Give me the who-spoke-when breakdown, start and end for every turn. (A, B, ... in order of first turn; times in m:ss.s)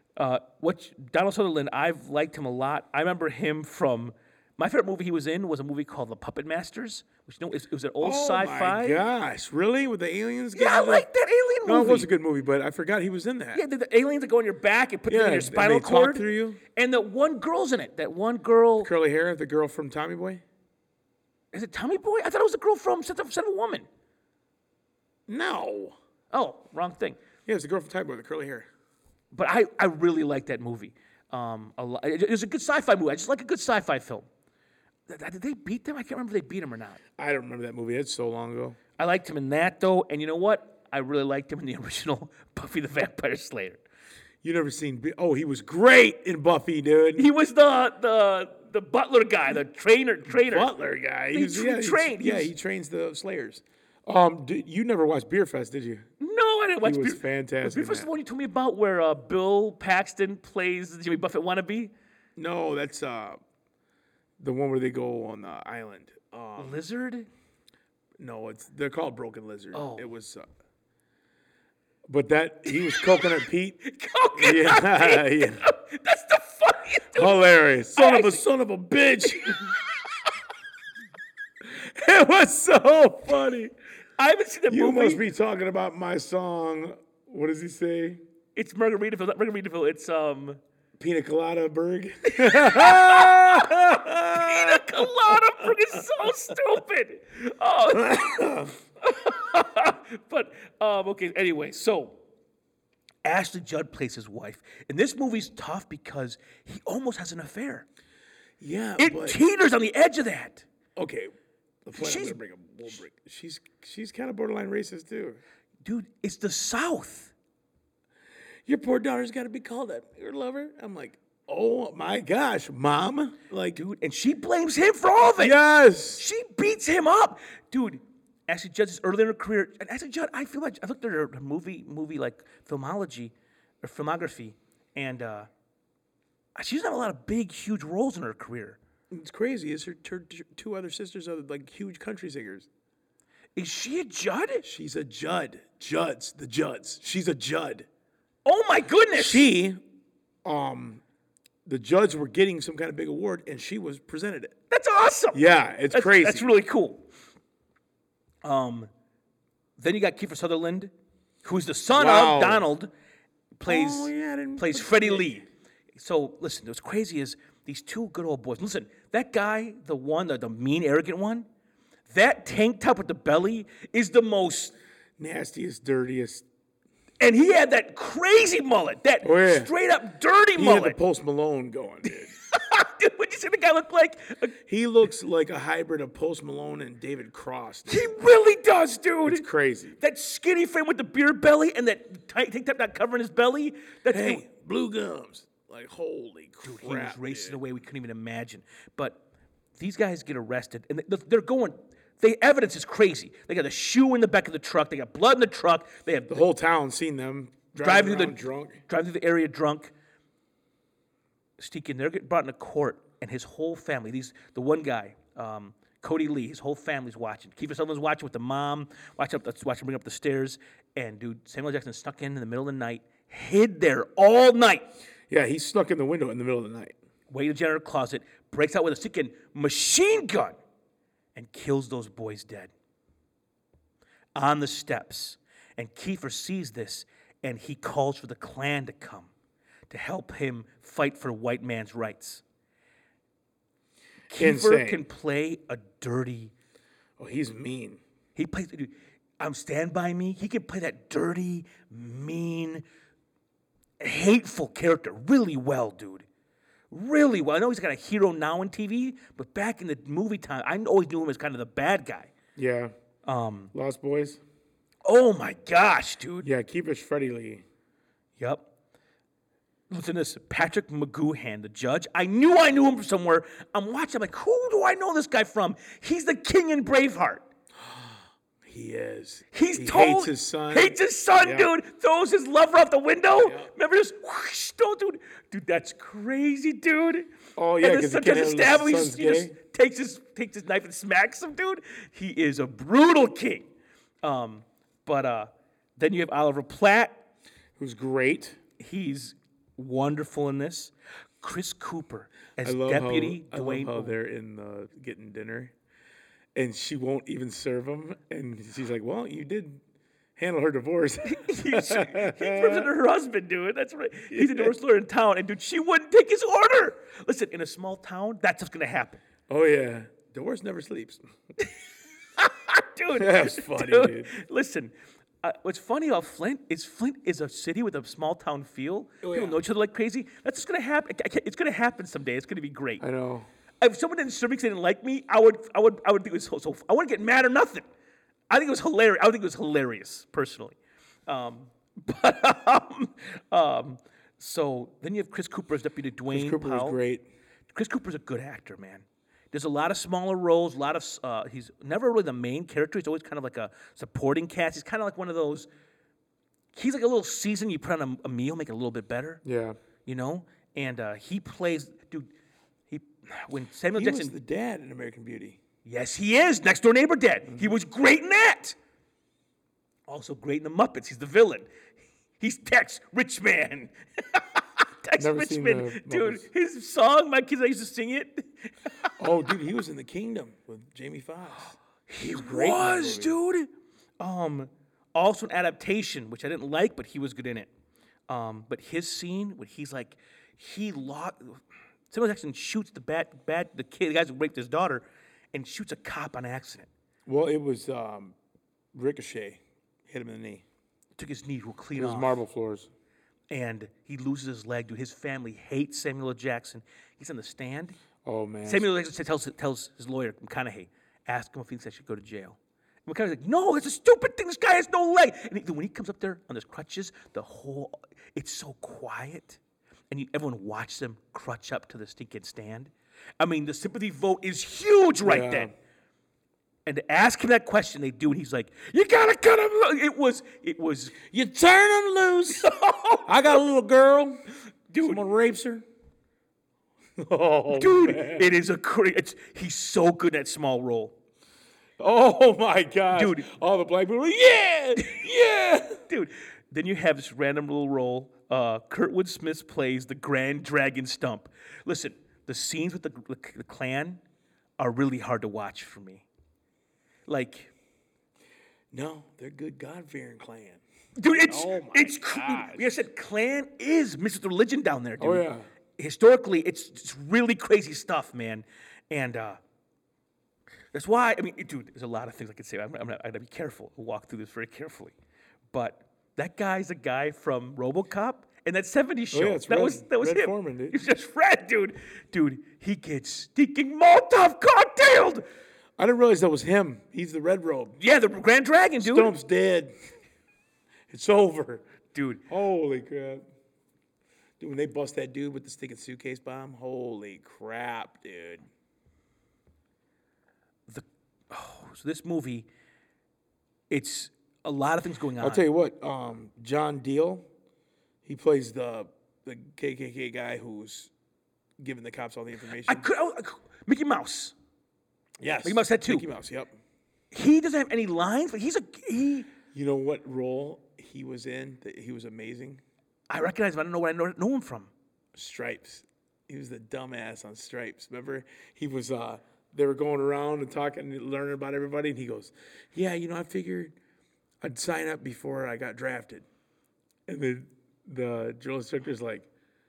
0:00.2-0:09.0 A
0:08.0-0:11.1 B
0:10.5-0:12.1 A
0:11.6-0:13.6 B
0:13.5-0:18.9 A
0:15.1-0:16.6 B
0:18.8-0:20.4 B
0:21.5-0:23.8 A
0:25.3-0:26.0 B
0:26.3-0:27.2 A
0:27.4-0:28.7 B
0:29.3-0:34.3 A
0:35.1-0:37.0 A
0:37.2-0:38.8 B
0:39.0-0:43.8 A
0:44.4-0:47.3 B
0:47.2-0:50.7 A
0:50.3-0:56.0 B
0:51.3-0:52.5 A
0:56.2-1:01.9 A
0:56.8-0:58.1 B
1:02.4-1:03.4 B
1:04.4-1:06.8 B
1:06.6-1:07.3 A
1:08.2-1:10.5 B
1:09.7-1:10.0 A
1:12.1-1:13.8 B
1:12.7-1:17.4 A
1:14.4-1:15.6 B
1:17.1-1:19.8 B
1:17.9-1:18.4 A
1:21.6-1:23.7 B
1:24.2-1:25.2 A
1:24.7-1:28.2 B
1:28.6-1:30.6 A
1:31.0-1:36.0 B
1:32.3-1:42.2 A
1:38.0-1:38.7 B
1:43.2-1:47.8 A
1:48.6-1:49.4 B
1:49.0-1:50.6 A
1:51.0-1:51.3 B
1:51.8-1:55.4 B
1:52.0-1:52.4 A
1:55.8-1:57.3 A
1:58.6-2:03.8 B
2:03.8-2:05.6 A
2:05.3-2:06.2 B
2:06.2-2:15.5 A
2:16.6-2:18.8 A
2:19.1-2:22.7 B
2:23.6-2:24.6 A
2:24.6-2:27.9 B
2:28.4-2:29.4 A
2:29.1-2:29.8 B
2:30.4-2:31.0 B
2:31.6-2:34.5 B
2:34.7-2:37.0 A
2:35.3-2:36.5 B
2:38.4-2:38.9 A
2:39.8-2:40.9 A
2:41.4-2:42.9 A
2:41.9-2:42.7 B
2:43.6-2:51.4 A
2:43.6-2:45.4 B
2:52.1-2:54.7 A
2:55.2-2:56.4 B
2:57.2-3:01.0 A
2:59.2-2:59.7 B
3:00.6-3:02.3 B
3:02.1-3:04.6 A
3:04.7-3:08.1 B
3:07.9-3:09.4 A
3:09.2-3:10.0 B
3:10.0-3:14.4 A
3:14.1-3:17.6 B
3:16.6-3:19.2 A
3:19.8-3:26.4 A
3:26.3-3:28.8 B
3:27.8-3:29.9 A
3:31.6-3:44.9 A
3:45.3-3:47.0 B
3:47.3-3:50.6 A
3:51.3-3:52.7 A
3:54.4-3:59.3 A
3:59.9-4:02.4 A
4:04.3-4:06.5 A
4:04.3-4:05.0 B
4:07.2-4:08.0 B
4:08.4-4:12.8 A
4:14.0-4:16.2 A
4:16.9-4:22.3 A
4:22.6-4:22.9 B
4:23.2-4:23.7 A
4:23.7-4:24.4 B
4:25.0-4:26.5 A
4:26.4-4:27.6 B
4:28.4-4:28.7 A
4:29.9-4:37.4 A
4:37.8-4:41.7 B
4:39.5-4:47.3 A
4:43.4-4:43.7 B
4:47.6-4:49.5 B
4:47.8-4:53.7 A
4:54.2-4:57.2 A
4:57.8-4:58.6 B
4:58.8-5:04.1 A
5:02.6-5:05.7 B
5:06.5-5:09.8 B
5:10.4-5:12.9 B
5:11.2-5:19.2 A
5:14.3-5:14.7 B
5:19.5-5:21.2 B
5:22.4-5:33.0 A
5:23.1-5:24.3 B
5:29.2-5:29.6 B
5:33.0-5:33.5 B
5:33.8-5:37.8 A
5:38.5-5:47.0 A
5:46.3-5:47.2 B
5:47.7-5:55.7 A
5:56.7-5:59.4 A
5:59.4-5:59.8 B
6:00.0-6:02.3 A
6:02.9-6:04.3 A
6:04.0-6:05.6 B
6:05.8-6:08.8 A
6:10.1-6:11.7 A
6:12.4-6:19.1 A
6:15.2-6:16.4 B
6:19.2-6:23.4 B
6:22.1-6:23.7 A
6:24.2-6:27.7 A
6:28.3-6:31.6 A
6:32.1-6:36.9 A
6:37.2-6:38.4 B
6:38.9-6:40.6 B
6:41.2-6:42.4 A
6:42.0-6:42.9 B
6:43.5-6:48.0 A
6:48.2-6:48.9 B
6:48.6-6:59.6 A
7:00.1-7:05.7 A
7:05.2-7:05.7 B
7:06.8-7:11.2 A
7:11.2-7:12.7 B
7:12.6-7:13.5 A
7:13.2-7:14.4 B
7:14.9-7:15.2 A
7:15.0-7:15.8 B
7:17.2-7:18.5 B
7:17.7-7:21.1 A
7:22.0-7:26.0 B
7:23.1-7:23.5 A
7:26.1-7:34.2 A
7:34.8-7:36.2 A
7:37.3-7:37.7 A
7:38.9-7:43.0 B
7:41.2-7:45.4 A
7:45.2-7:45.7 B
7:46.0-7:49.6 A
7:50.9-7:55.1 A
7:55.7-8:05.4 A
7:59.3-8:01.0 B
8:06.0-8:08.0 B
8:08.0-8:09.4 A
8:09.0-8:09.9 B
8:11.1-8:11.8 B
8:12.1-8:12.4 A
8:12.5-8:13.4 B
8:14.6-8:18.6 B
8:20.9-8:22.7 A
8:23.9-8:25.6 A
8:25.4-8:27.4 B
8:28.2-8:31.1 B
8:31.8-8:33.0 B
8:32.8-8:34.5 A
8:35.4-8:36.8 B
8:35.6-8:36.3 A
8:37.3-8:39.5 A
8:39.7-8:42.8 B
8:43.3-8:44.9 A
8:45.3-8:53.9 B
8:54.6-8:56.4 B
8:57.3-8:59.5 B